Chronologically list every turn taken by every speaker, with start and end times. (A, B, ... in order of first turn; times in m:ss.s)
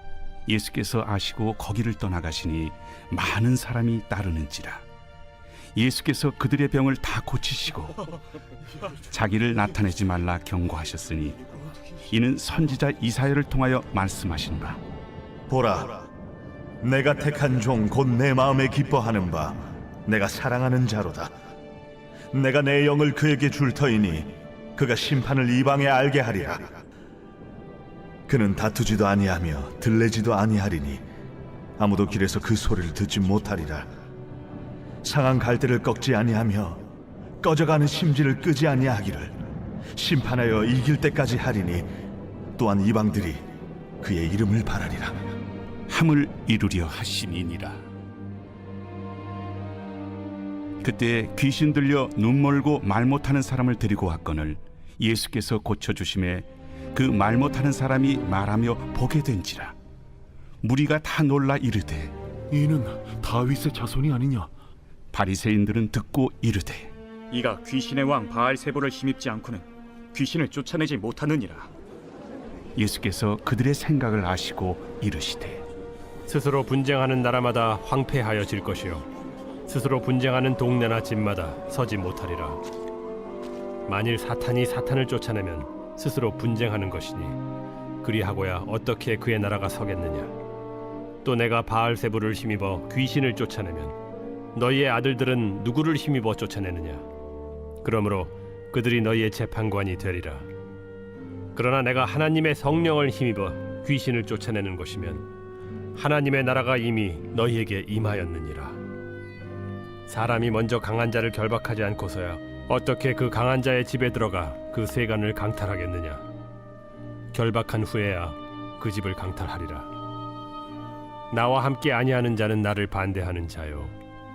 0:00.5-0:04.8 A
0:05.8-0:08.0 A
0:09.1-0:11.4 A
0:12.1-0:14.8 A
0:15.5-0:16.1 B
0:16.8-0:21.3 B
0:22.3-0:26.8 B
0:28.3-0:31.0 B
0:31.8-0:33.9 B
0:35.0-0:36.8 B
0:37.4-0:39.4 B
0:40.0-0:41.9 B
0:42.6-0:43.4 B
0:44.0-0:45.2 B
0:45.9-0:47.8 A
0:50.8-0:59.7 A
1:00.6-1:02.1 A
1:02.5-1:04.5 C
1:05.1-1:06.9 A
1:07.3-1:11.7 D
1:12.8-1:15.6 A
1:16.3-1:19.0 E
1:19.7-1:22.6 E
1:23.8-1:27.4 E
1:28.0-1:30.3 E
1:31.2-1:34.0 E
1:34.5-1:37.0 E
1:37.8-1:40.5 E
1:41.5-1:45.2 E
1:45.9-1:48.8 E
1:50.1-1:56.2 E
1:57.3-1:59.9 E
2:01.3-2:03.9 E